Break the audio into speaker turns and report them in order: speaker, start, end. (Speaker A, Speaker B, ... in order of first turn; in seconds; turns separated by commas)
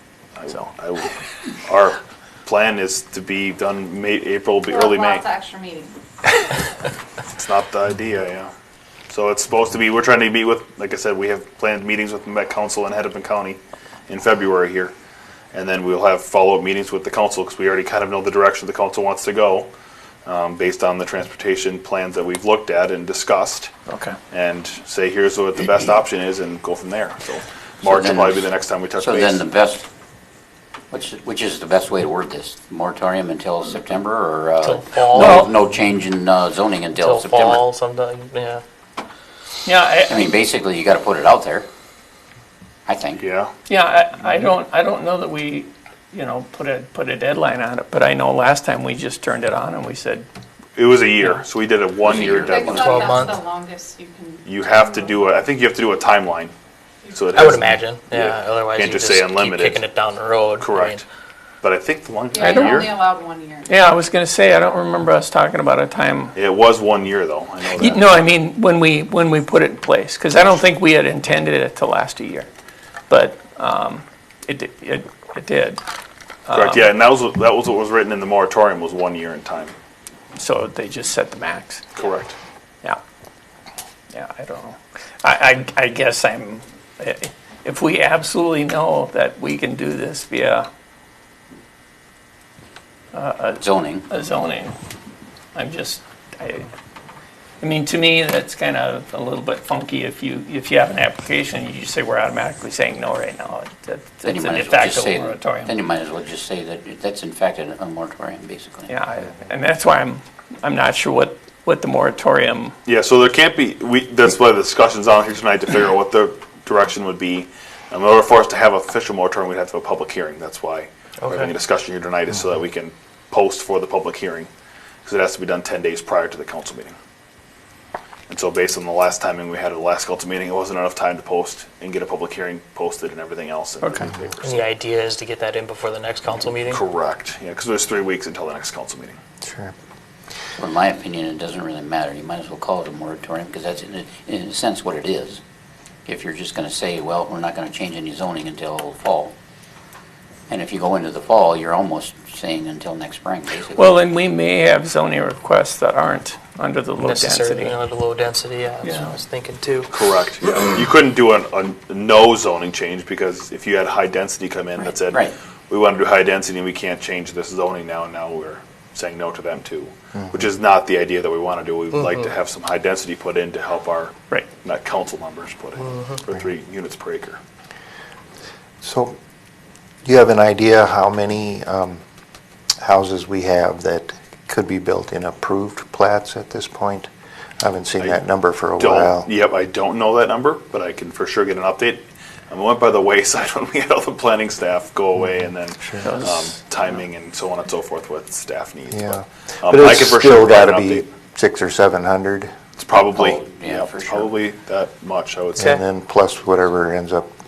Speaker A: 0.4-5.2, Speaker B: 4.7-5.9, Speaker A: 7.3-8.5, Speaker A: 9.1-14.9, Speaker A: 15.5-19.7, Speaker A: 20.2-23.7, Speaker C: 23.9-24.2, Speaker A: 24.3-29.4, Speaker D: 27.8-29.9, Speaker D: 30.9-37.7, Speaker E: 34.6-35.4, Speaker C: 35.2-35.5, Speaker E: 37.0-38.6, Speaker C: 39.6-40.3, Speaker D: 40.0-41.7, Speaker D: 42.9-43.2, Speaker A: 43.2-43.5, Speaker C: 43.7-50.3, Speaker A: 50.8-53.1, Speaker D: 52.0-53.3, Speaker B: 52.4-55.2, Speaker E: 52.8-53.4, Speaker A: 54.4-56.5, Speaker A: 57.1-59.8, Speaker E: 57.3-61.0, Speaker A: 60.6-61.0, Speaker A: 61.6-62.9, Speaker B: 62.3-63.8, Speaker C: 62.4-62.9, Speaker C: 63.7-66.4, Speaker A: 66.4-68.1, Speaker C: 67.8-72.5, Speaker C: 73.1-75.8, Speaker C: 76.5-76.9, Speaker A: 76.5-79.7, Speaker C: 80.4-81.8, Speaker A: 82.0-82.3, Speaker C: 84.1-90.7, Speaker C: 93.1-94.8, Speaker D: 93.6-94.0, Speaker C: 95.5-96.7, Speaker C: 97.6-105.7, Speaker D: 104.2-108.9, Speaker C: 108.9-112.7, Speaker A: 112.9-124.5, Speaker A: 125.0-126.9, Speaker A: 128.3-134.7, Speaker E: 134.4-136.8, Speaker A: 136.6-139.2, Speaker F: 139.4-139.7, Speaker D: 140.6-145.4, Speaker D: 146.1-149.3, Speaker D: 150.5-153.9, Speaker C: 153.7-157.8, Speaker E: 157.0-159.9, Speaker C: 158.8-159.1, Speaker A: 159.9-177.4, Speaker D: 164.8-165.3, Speaker F: 178.8-179.2, Speaker F: 180.0-182.0, Speaker F: 182.8-187.1, Speaker F: 187.6-189.3, Speaker A: 188.8-201.1, Speaker F: 195.8-196.1, Speaker C: 196.0-196.6, Speaker F: 198.9-202.5, Speaker A: 202.8-205.8, Speaker D: 203.1-204.3, Speaker F: 205.6-207.3